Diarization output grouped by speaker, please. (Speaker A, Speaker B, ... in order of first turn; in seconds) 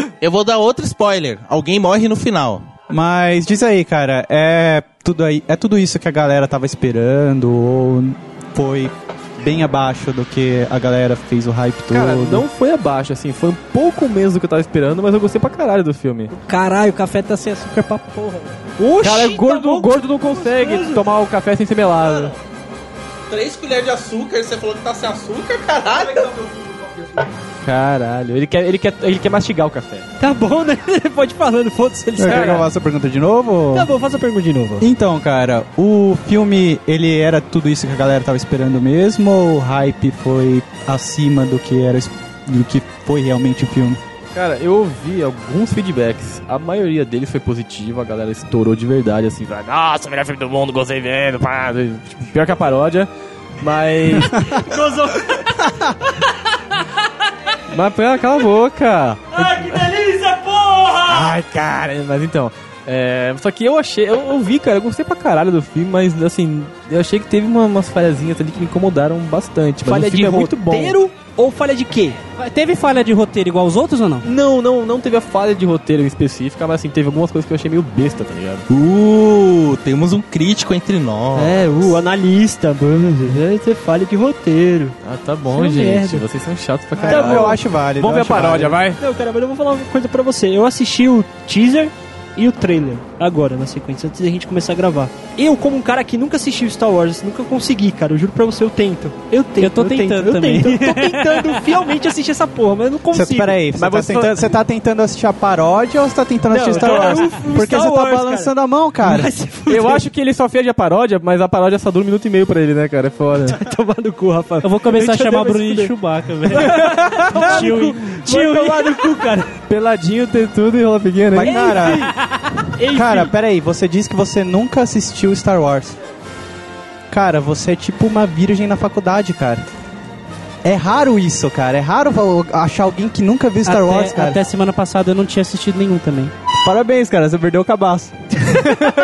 Speaker A: 0.2-2.6, 22.0-22.4, 23.3-27.2, 78.7-81.9
Speaker B: 2.9-12.5, 32.2-33.9, 34.8-44.0, 87.0-88.8, 103.1-109.3, 121.3-122.2, 122.9-126.0, 127.1-129.6, 130.6-134.4, 136.6-138.8
Speaker C: 11.9-16.3, 19.0-22.4, 27.6-30.0, 32.3-32.6, 44.3-53.1, 53.6-54.5, 57.7-59.8, 61.1-71.0, 74.2-78.7, 85.0-89.0, 103.8-104.6, 109.7-113.6, 119.7-121.6
Speaker D: 16.4-18.6, 72.4-74.3, 99.6-101.7, 114.6-119.3, 133.7-136.3
Speaker E: 18.8-21.1, 30.2-32.7, 33.7-34.9, 54.3-56.3, 59.3-61.3, 69.8-72.2, 81.4-85.0, 85.5-86.2, 87.1-87.6, 89.0-103.6, 106.5-110.1, 113.5-115.9, 116.5-119.5, 121.4-122.1, 122.7-123.3